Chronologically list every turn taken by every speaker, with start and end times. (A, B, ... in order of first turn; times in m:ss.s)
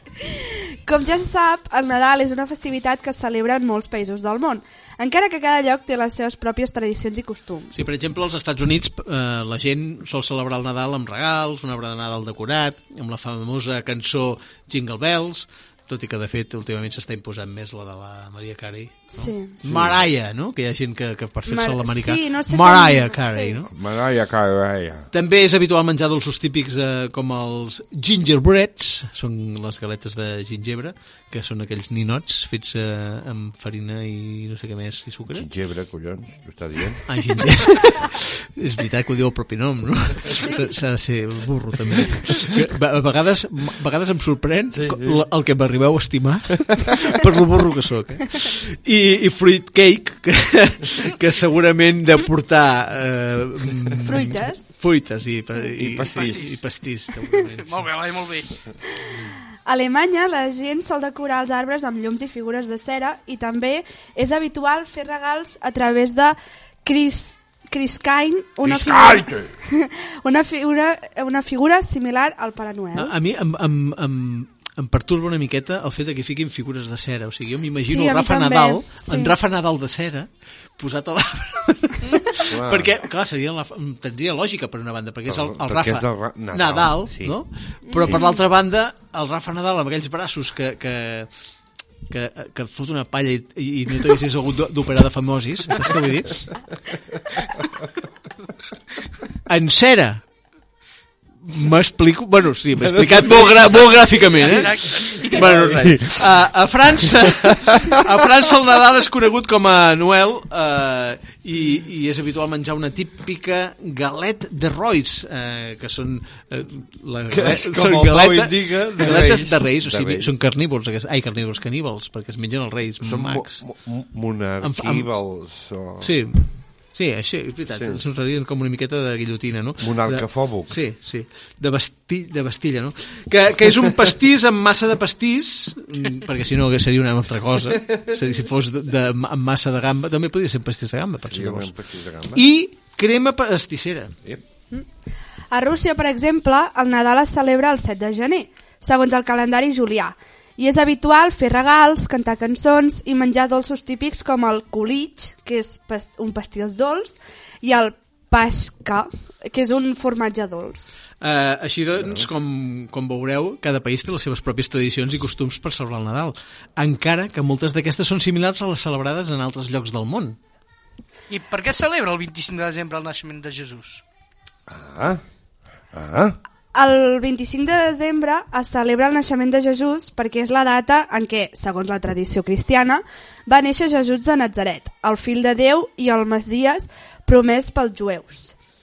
0:00.2-0:07.9 A
0:07.7-0:23.7 B
0:19.1-0:19.6 A
0:19.6-0:20.0 C
0:21.5-0:23.6 A
0:23.7-0:25.1 C
0:25.1-0:35.4 B
0:35.3-0:37.4 C
0:37.0-0:57.9 B
0:44.7-0:45.2 C
0:54.0-0:54.7 A
0:55.8-0:56.5 C
0:56.1-0:56.4 D
0:57.6-0:58.5 D
0:59.6-1:13.1 A
1:08.6-1:09.5 C
1:12.9-1:31.3 B
1:17.8-1:19.4 A
1:22.5-1:22.9 C
1:25.3-1:27.4 C
1:27.9-1:28.4 A
1:32.1-1:36.6 B
1:39.5-1:40.2 B
1:41.4-2:03.6 B
1:42.8-1:43.8 C
1:44.4-1:46.2 C
1:44.4-1:45.5 D
1:47.0-1:48.0 C
1:57.3-2:00.3 C
2:03.0-2:06.1 C
2:04.6-2:05.1 B
2:06.0-2:21.7 B
2:07.8-2:08.0 C
2:09.8-2:10.8 C
2:21.2-2:22.4 C
2:22.3-2:24.2 B
2:25.5-2:40.9 A
2:41.2-2:50.4 B
2:42.0-2:42.3 C
2:51.3-2:54.0 D
2:54.7-2:55.2 C
2:55.9-2:56.4 C
2:56.8-3:08.5 A